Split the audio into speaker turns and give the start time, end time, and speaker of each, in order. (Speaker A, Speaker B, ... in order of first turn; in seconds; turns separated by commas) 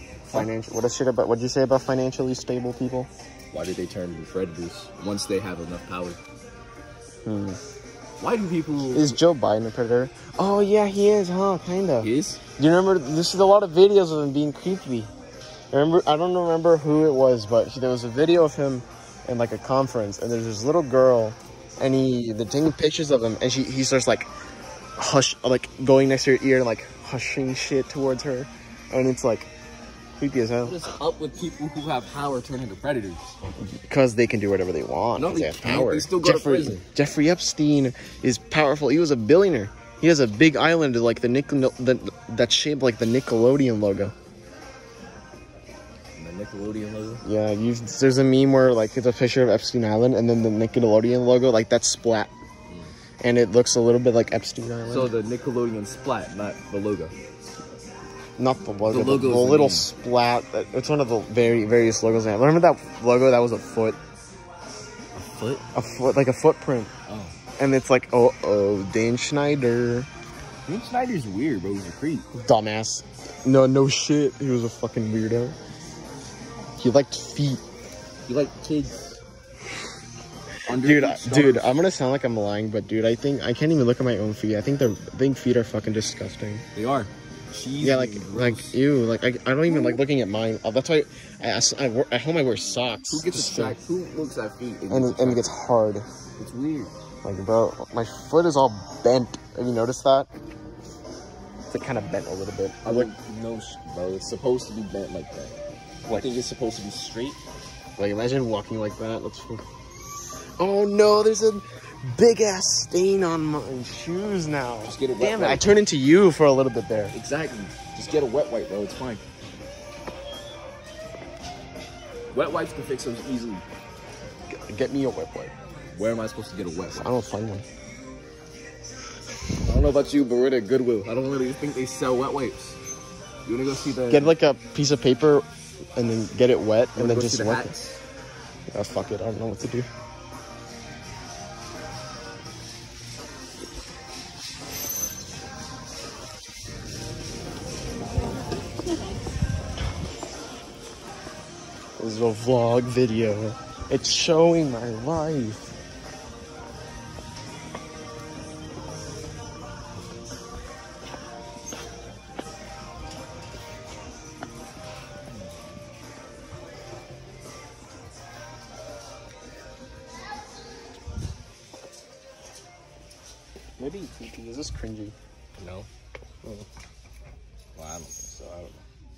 Speaker A: 0.3-3.1, Speaker B: 3.5-6.2, Speaker A: 7.2-7.6, Speaker B: 8.2-9.2, Speaker A: 8.9-15.1, Speaker B: 12.0-12.4, Speaker A: 15.7-24.3, Speaker A: 25.0-29.5, Speaker A: 30.2-30.8, Speaker B: 30.6-33.4, Speaker A: 33.8-44.1, Speaker B: 35.2-36.9, Speaker B: 46.2-47.2, Speaker A: 47.2-52.3, Speaker A: 53.2-55.1, Speaker B: 54.9-57.1, Speaker A: 58.4-64.0, Speaker B: 58.9-59.9, Speaker B: 65.2-65.6, Speaker A: 65.8-66.9, Speaker B: 67.1-67.3, Speaker A: 67.6-70.1, Speaker B: 70.7-72.3, Speaker A: 72.3-75.6, Speaker A: 76.8-77.6, Speaker B: 78.3-79.2, Speaker B: 80.7-81.8, Speaker A: 80.8-86.6, Speaker B: 86.8-88.8, Speaker A: 87.8-93.8, Speaker B: 93.1-95.5, Speaker A: 94.9-96.0, Speaker B: 96.4-96.9, Speaker A: 97.2-100.3, Speaker A: 101.7-103.1, Speaker B: 102.8-107.4, Speaker A: 108.0-109.6, Speaker A: 110.6-117.2, Speaker B: 114.8-115.8, Speaker B: 117.1-119.2, Speaker B: 122.3-123.7, Speaker A: 124.5-125.5, Speaker B: 125.9-127.2, Speaker A: 126.9-127.6, Speaker B: 129.7-132.8, Speaker B: 133.5-134.4, Speaker A: 134.1-135.4, Speaker A: 136.0-137.7, Speaker B: 136.9-138.0, Speaker A: 138.7-139.9, Speaker A: 152.0-155.7, Speaker A: 173.8-175.2, Speaker B: 175.6-175.9, Speaker B: 177.8-178.8